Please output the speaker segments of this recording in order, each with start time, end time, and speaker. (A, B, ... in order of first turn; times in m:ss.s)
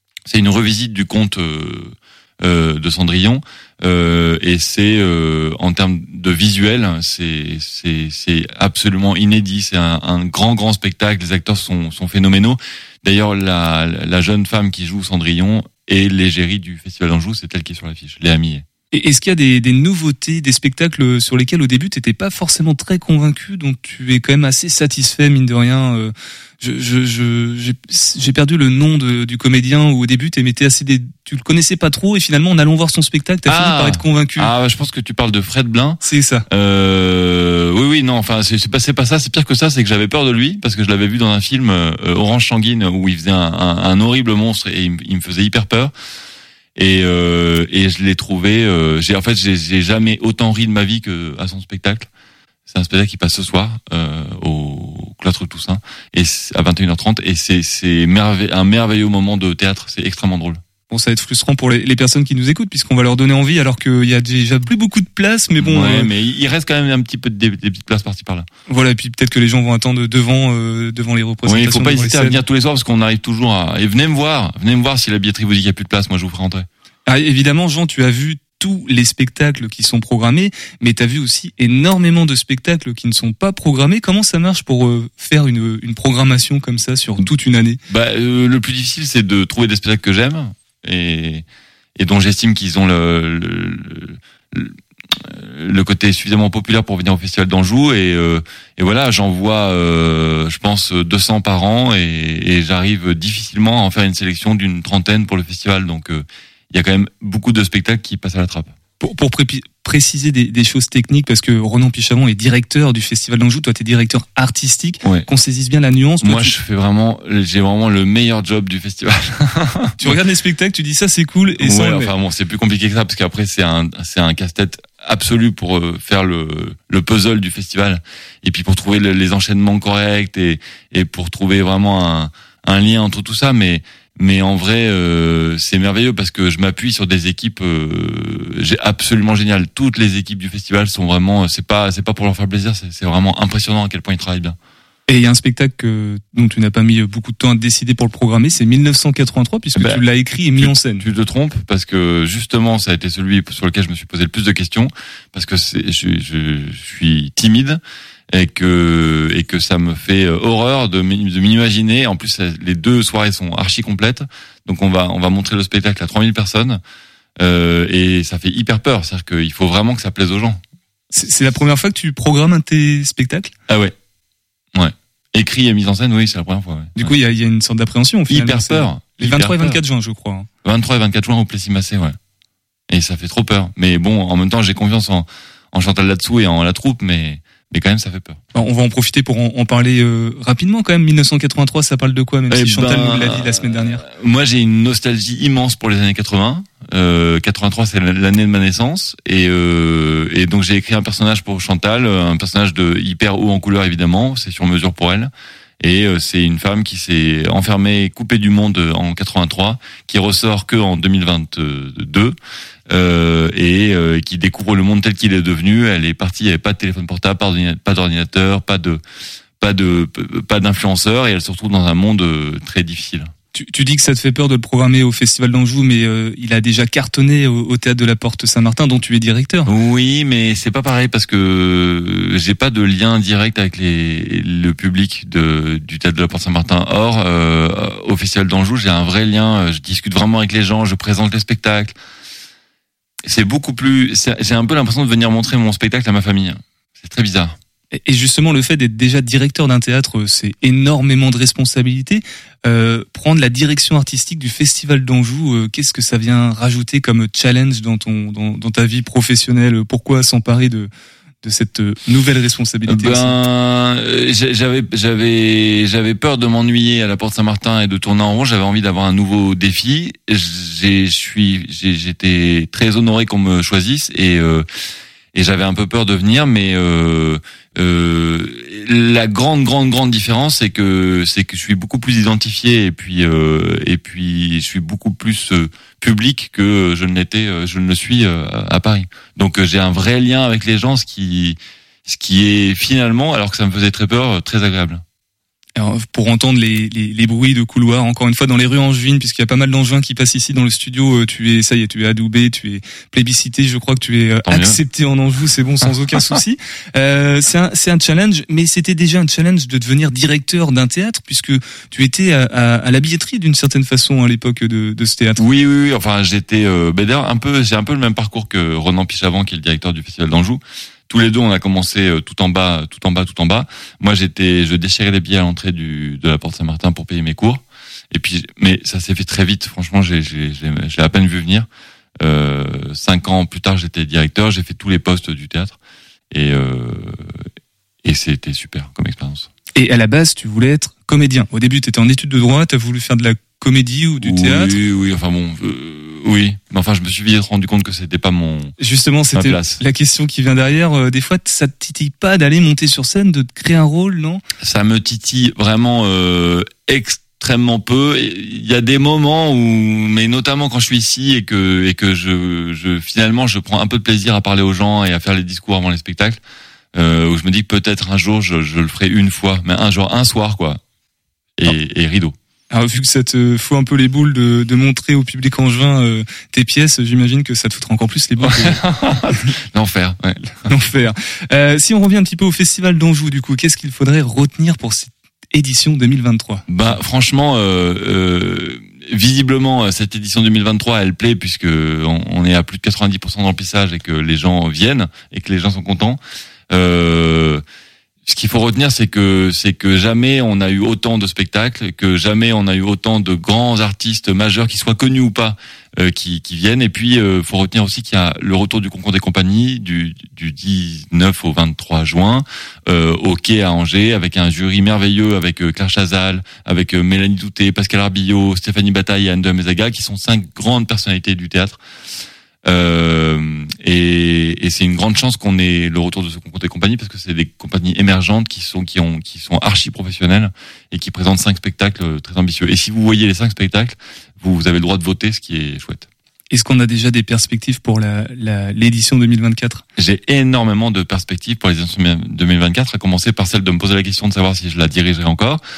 0:00.3-0:18.6 A
0:18.9-0:34.5 B
0:33.5-0:45.9 A
0:36.0-0:36.4 B
0:46.8-0:52.1 A
0:52.7-1:00.6 A
1:00.9-1:06.1 B
1:05.6-1:08.5 A
1:08.7-1:12.4 B
1:11.5-1:16.7 A
1:17.1-1:27.8 B
1:27.9-1:31.4 A
1:32.0-1:48.7 A
1:49.0-1:56.6 B
1:55.0-1:55.3 A
1:56.2-2:00.2 A
2:00.0-2:02.1 B
2:01.6-2:24.6 A
2:25.1-2:31.1 B
2:29.8-2:30.0 A
2:30.6-2:37.8 A
2:38.3-2:46.8 A
2:47.4-2:50.6 A
2:51.1-2:53.5 B
2:53.7-2:53.9 A
2:54.7-2:57.1 A
2:57.0-3:00.5 B
2:58.3-2:59.8 A
3:00.6-3:02.2 A
3:02.9-3:08.4 A
3:08.5-3:14.0 B
3:12.5-3:32.4 A
3:32.9-3:39.0 A
3:39.6-3:43.3 A
3:43.5-3:49.7 B
3:49.7-4:02.0 A
4:03.3-4:07.6 A
4:07.9-4:20.9 B
4:21.4-4:23.4 B
4:22.9-4:34.7 A
4:35.3-4:55.0 A
4:55.8-5:15.4 B
5:04.5-5:04.8 A
5:15.4-5:31.7 A
5:32.2-5:35.8 A
5:36.3-5:37.4 A
5:38.0-5:39.5 A
5:39.8-5:44.7 B
5:44.2-5:48.7 A
5:48.8-5:54.4 B
5:49.3-5:49.8 A
5:54.6-6:06.4 A
6:07.0-6:10.8 A
6:11.6-6:12.4 A
6:12.7-6:18.8 B
6:18.4-6:20.6 A
6:20.7-6:26.7 B
6:26.7-6:37.6 A
6:38.3-7:01.8 A
7:02.7-7:16.1 A
7:16.5-7:19.8 B
7:20.0-7:25.6 A